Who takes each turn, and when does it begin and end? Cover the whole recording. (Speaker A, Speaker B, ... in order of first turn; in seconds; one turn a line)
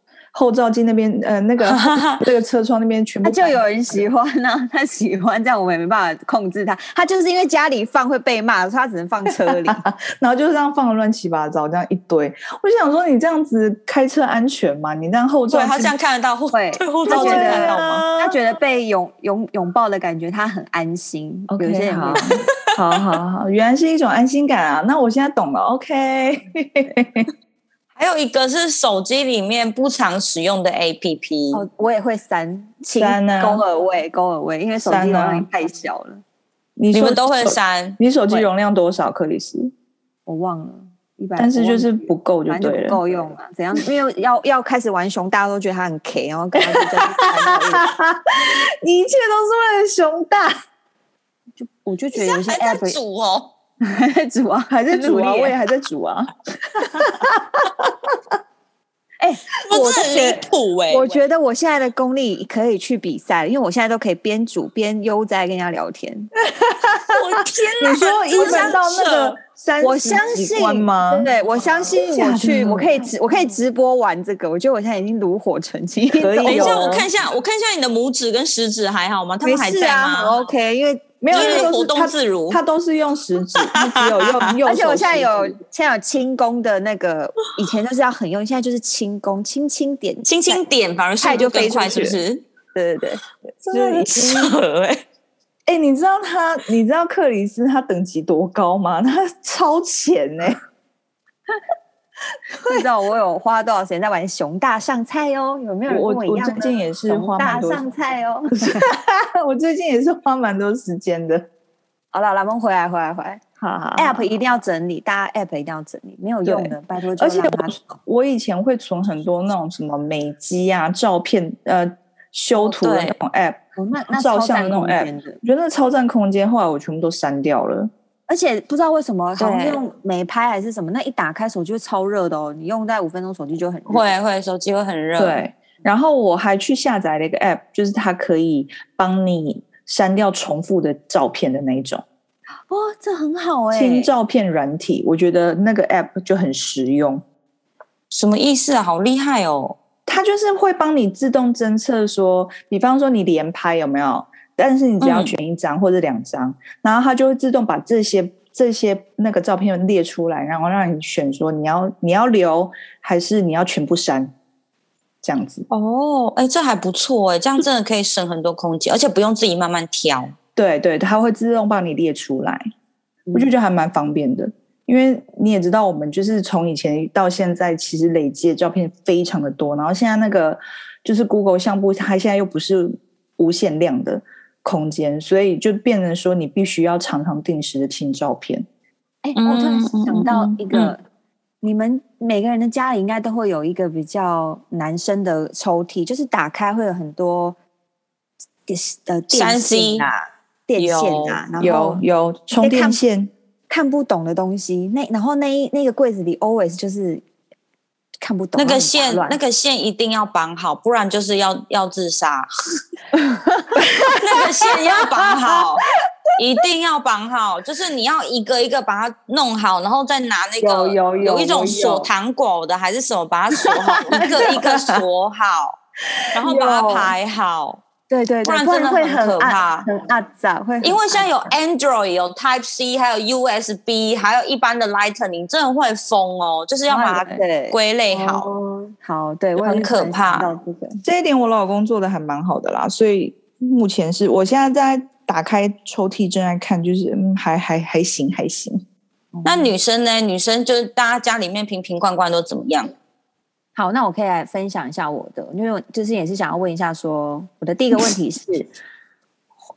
Speaker A: 0.3-3.6
Speaker B: 1.6-2.2
Speaker C: 3.2-9.8
Speaker A: 9.3-15.9
Speaker B: 15.5-18.2
Speaker C: 16.5-22.3
Speaker A: 17.1-18.2
Speaker A: 21.5-27.3
Speaker B: 28.0-31.6
Speaker C: 31.5-36.2
Speaker A: 33.0-33.6
Speaker A: 34.8-35.5
Speaker A: 36.8-39.7
Speaker B: 36.9-38.0
Speaker C: 40.3-47.9
Speaker A: 41.4-43.0
Speaker A: 46.7-50.6
Speaker C: 51.6-53.0
Speaker B: 52.1-53.5
Speaker C: 53.8-55.5
Speaker A: 54.7-57.9
Speaker C: 59.2-66.3
Speaker B: 59.7-61.2
Speaker A: 66.5-71.3
Speaker B: 67.1-69.4
Speaker C: 68.4-68.7
Speaker C: 69.8-77.0
Speaker A: 71.9-73.1
Speaker A: 76.1-77.1
Speaker B: 76.5-80.4
Speaker C: 79.4-81.7
Speaker A: 81.2-85.6
Speaker B: 81.3-82.6
Speaker B: 83.6-84.5
Speaker C: 84.7-90.6
Speaker B: 90.3-92.4
Speaker C: 91.2-92.2
Speaker C: 92.7-93.2
Speaker A: 93.6-94.5
Speaker B: 93.7-95.0
Speaker A: 95.7-100.6
Speaker C: 102.7-108.9
Speaker A: 105.9-107.8
Speaker A: 108.6-111.5
Speaker C: 112.1-117.9
Speaker A: 113.6-114.3
Speaker A: 116.5-123.6
Speaker B: 122.6-123.2
Speaker C: 123.8-125.4
Speaker A: 124.1-127.9
Speaker C: 128.3-134.1
Speaker B: 129.4-129.8
Speaker B: 133.9-135.4
Speaker A: 135.2-142.0
Speaker C: 142.7-144.1
Speaker A: 143.7-147.2
Speaker B: 148.1-149.8
Speaker A: 150.1-164.3
Speaker B: 155.0-155.3
Speaker A: 165.2-165.7
Speaker B: 165.7-170.3
Speaker A: 170.6-172.6
Speaker A: 173.3-188.7
Speaker C: 189.2-191.0
Speaker B: 189.4-190.9
Speaker C: 191.6-197.6
Speaker C: 198.7-202.0
Speaker B: 199.3-200.1
Speaker B: 200.8-201.4
Speaker A: 201.6-203.3
Speaker C: 202.6-203.0
Speaker C: 203.7-207.2
Speaker C: 208.2-209.4
Speaker B: 208.6-212.5
Speaker A: 213.7-215.6
Speaker B: 214.0-215.8
Speaker B: 216.4-225.8
Speaker C: 220.6-222.1
Speaker A: 223.8-225.0
Speaker C: 224.2-224.4
Speaker B: 226.3-227.8
Speaker C: 226.5-227.1
Speaker C: 228.1-231.5
Speaker B: 228.4-229.9
Speaker B: 230.8-238.5
Speaker C: 236.9-241.0
Speaker B: 239.6-240.5
Speaker A: 241.0-248.8
Speaker C: 249.3-249.7
Speaker B: 249.4-252.9
Speaker C: 253.8-258.7